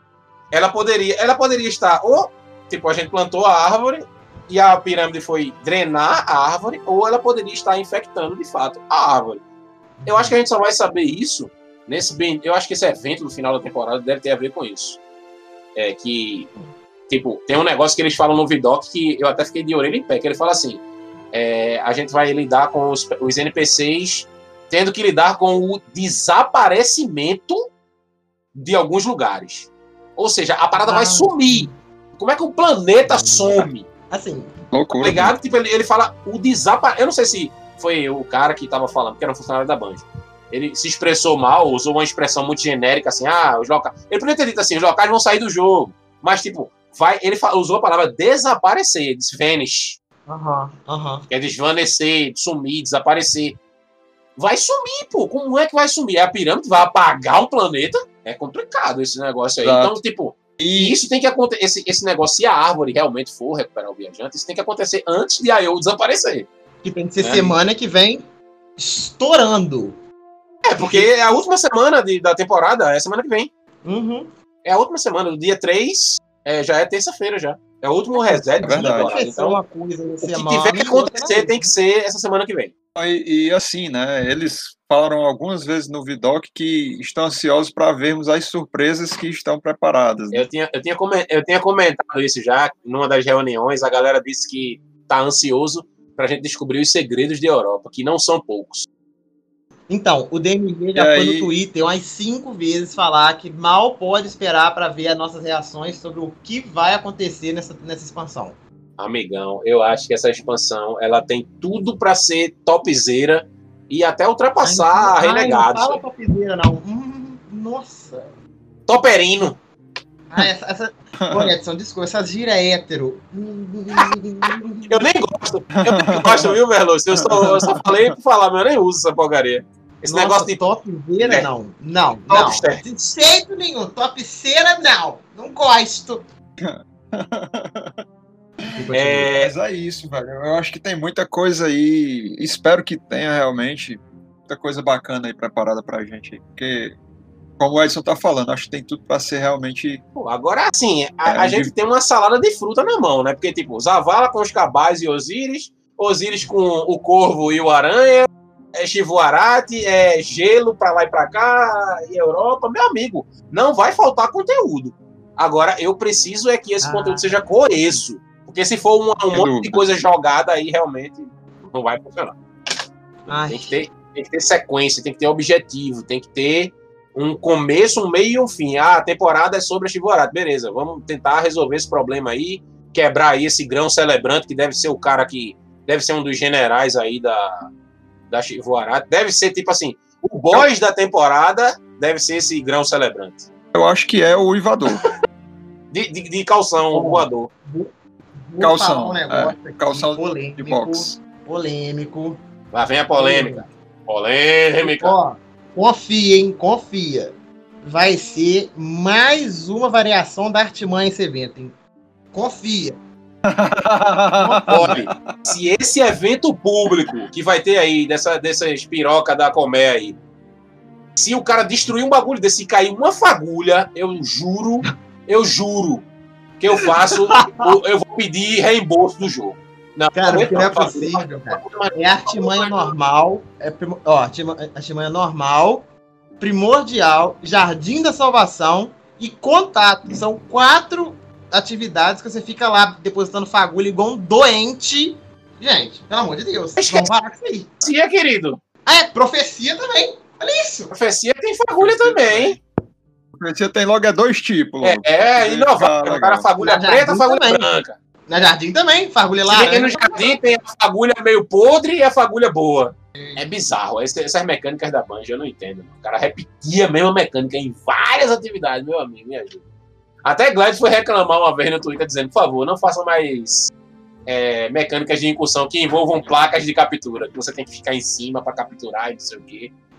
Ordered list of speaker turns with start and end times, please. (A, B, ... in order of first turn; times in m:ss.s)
0:00.5-0:09.4 A
0:10.0-0:10.4 B
0:10.1-0:15.0 A
0:15.8-0:16.5 A
0:17.1-0:27.7 A
0:28.5-0:33.9 A
0:30.8-0:31.8 B
0:33.0-0:34.5 B
0:34.7-0:35.4 C
0:35.0-0:50.0 A
0:50.3-0:51.3 B
0:51.3-0:53.6 A
0:54.4-1:06.5 A
0:59.6-1:00.0 C
1:00.6-1:01.0 C
1:06.8-1:08.2 B
1:07.2-1:07.6 A
1:08.8-1:10.0 B
1:10.6-1:13.5 A
1:10.8-1:11.1 B
1:13.8-1:14.3 B
1:14.6-1:19.6 A
1:18.2-1:21.7 B
1:18.6-1:19.2 C
1:20.2-1:22.7 A
1:23.0-1:30.5 C
1:30.3-1:38.9 A
1:39.9-1:48.6 B
1:41.0-1:41.5 C
1:49.0-1:56.0 A
1:54.6-1:58.4 B
1:58.9-1:59.6 A
2:00.3-2:05.0 B
2:01.2-2:01.5 C
2:04.9-2:10.6 A
2:05.8-2:06.6 C
2:07.2-2:08.1 C
2:10.1-2:16.3 B
2:11.2-2:11.5 A
2:12.3-2:12.8 A
2:16.6-2:18.0 C
2:18.7-2:19.3 B
2:18.9-2:19.5 A
2:19.4-2:27.0 C
2:27.6-2:30.0 C
2:30.2-2:52.4 A
2:31.2-2:31.7 C
2:46.8-2:47.4 B
2:49.3-2:49.8 C
2:53.3-2:53.8 B
2:53.3-3:07.7 A
3:08.3-3:13.5 A
3:13.7-3:15.0 C
3:15.9-3:17.5 A
3:16.9-3:22.4 B
3:18.6-3:21.2 C
3:22.7-3:25.2 A
3:23.2-3:23.7 B
3:24.8-3:31.8 B
3:32.3-3:33.0 B
3:33.4-3:35.6 C
3:34.4-3:35.1 B
3:34.7-3:40.2 A
3:41.2-3:46.1 A
3:46.6-3:52.9 A
3:46.7-3:47.7 B
3:50.2-3:55.9 B
3:56.4-4:07.8 B
4:06.8-4:07.1 A
4:07.8-4:08.6 A
4:08.9-4:10.9 B
4:10.9-4:12.6 A
4:11.8-4:12.6 C
4:13.4-4:16.5 C
4:14.8-4:18.0 A
4:16.6-4:17.7 B
4:18.3-4:20.4 B
4:19.5-4:29.6 A
4:23.2-4:23.5 B
4:30.2-4:33.7 A
4:34.3-4:39.7 A